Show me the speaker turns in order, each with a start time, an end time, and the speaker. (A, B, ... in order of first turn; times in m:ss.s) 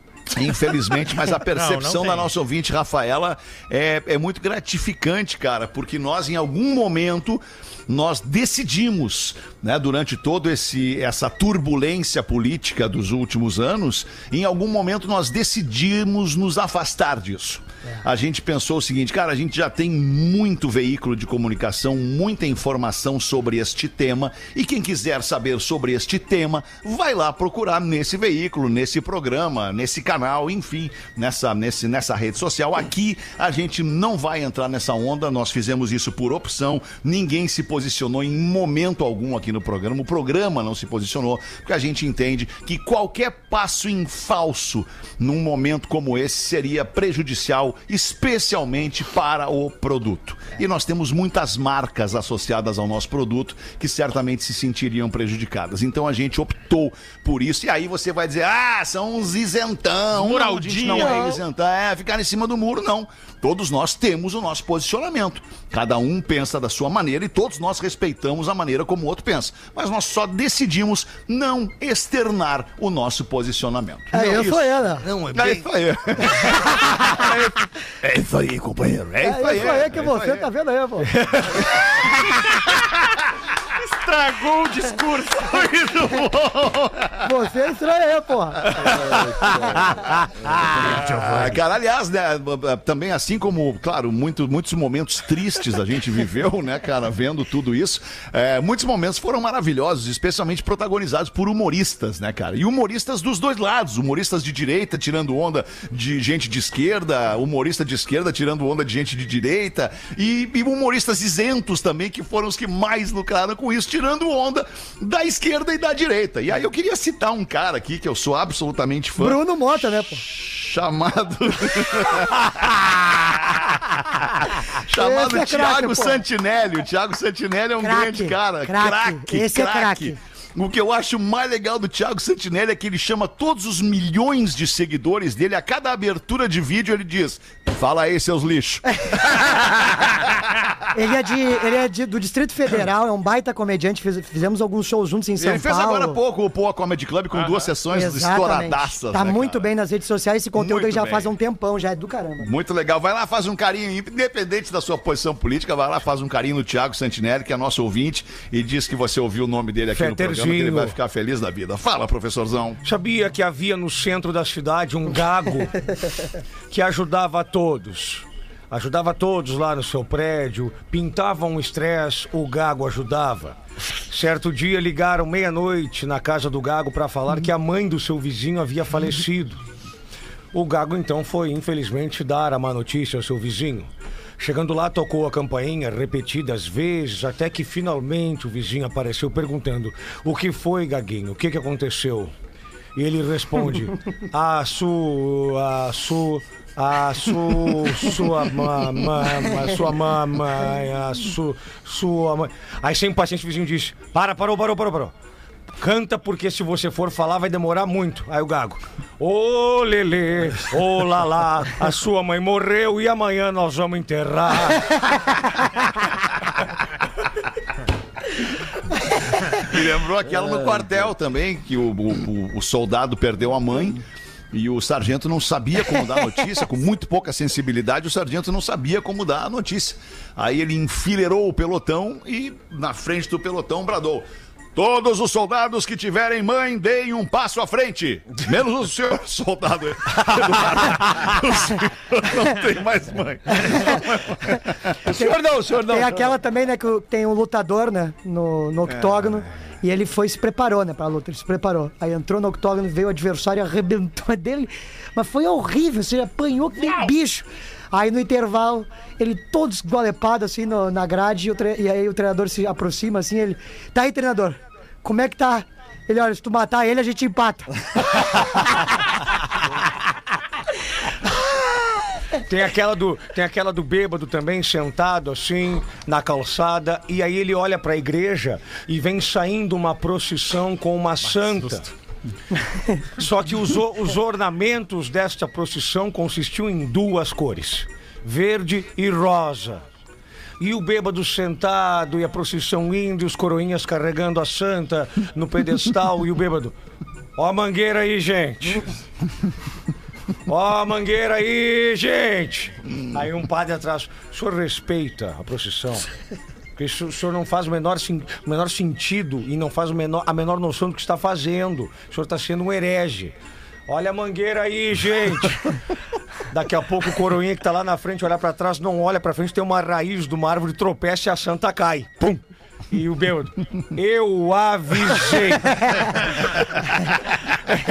0:00.3-1:14.7 A
0:01.5-0:02.3 B
1:00.1-1:01.2 B
1:00.9-1:01.4 C
1:14.1-1:15.1 D
1:14.2-1:15.7 E
1:15.3-1:20.5 A
1:19.2-1:21.1 D
1:21.5-1:22.2 A
1:23.8-1:26.3 B
1:25.6-1:27.3 A
1:27.2-1:28.9 D
1:28.7-1:59.4 A
1:29.0-1:29.8 C
1:30.9-1:31.6 E
1:59.2-2:00.2 D
2:00.0-2:20.7 A
2:04.9-2:06.2 D
2:07.8-2:10.2 D
2:19.1-2:19.4 D
2:20.9-2:26.2 D
2:25.4-2:29.7 A
2:27.3-2:27.7 B
2:27.9-2:32.5 D
2:30.5-2:31.3 A
2:32.4-2:42.8 A
2:39.9-2:41.0 E
2:42.8-2:45.9 E
2:46.7-2:53.6 E
2:54.1-2:59.6 E
3:00.5-3:12.3 E
3:12.9-3:25.1 E
3:25.8-3:35.6 E
3:39.5-4:04.9 A
3:40.3-3:41.1 C
4:00.2-4:00.9 C
4:05.0-4:06.3 C
4:05.1-4:27.7 D
4:08.9-4:09.3 A
4:32.4-4:41.9 E
4:41.2-4:41.8 B
4:43.2-4:49.8 E
4:50.6-4:56.7 E
4:57.4-4:58.9 E
5:00.5-5:06.1 E
5:06.8-5:13.3 E
5:13.9-5:15.7 E
5:16.5-5:26.2 E